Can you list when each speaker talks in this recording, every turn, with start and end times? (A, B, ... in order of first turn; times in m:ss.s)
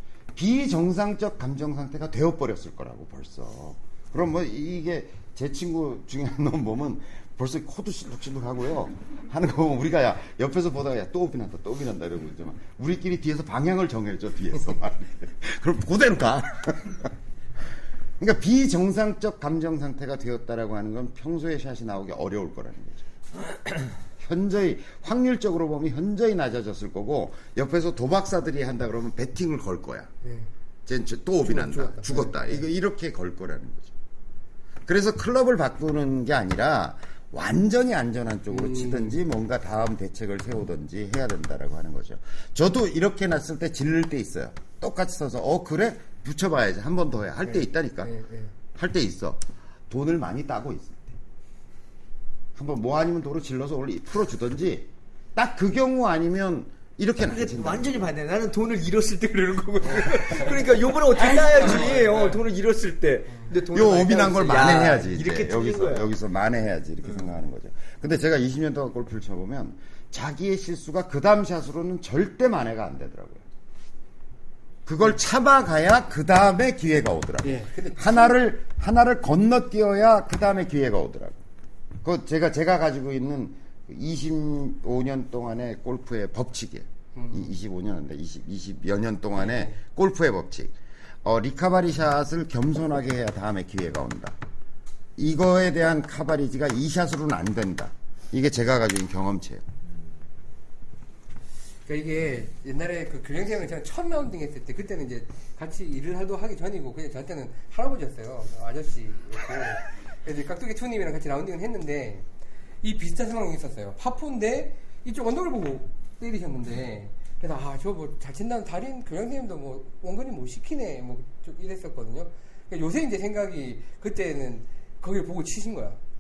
0:00.4-0:17.1 A
0:18.2-0:30.1 A
0:30.9-0:33.9 A
0:31.4-0:32.6 B
0:34.8-0:48.1 A
0:38.5-0:39.2 B
0:47.5-0:48.5 B
0:48.8-0:51.2 A
0:52.6-0:58.1 A
0:57.2-1:06.1 C
1:01.1-1:02.4 B
1:03.7-1:13.4 A
1:14.9-1:21.4 A
1:17.4-1:18.3 B
1:22.0-1:34.4 A
1:27.2-1:27.5 B
1:29.4-1:29.7 B
1:35.2-1:39.6 A
1:41.9-1:52.3 B
1:52.8-2:06.0 B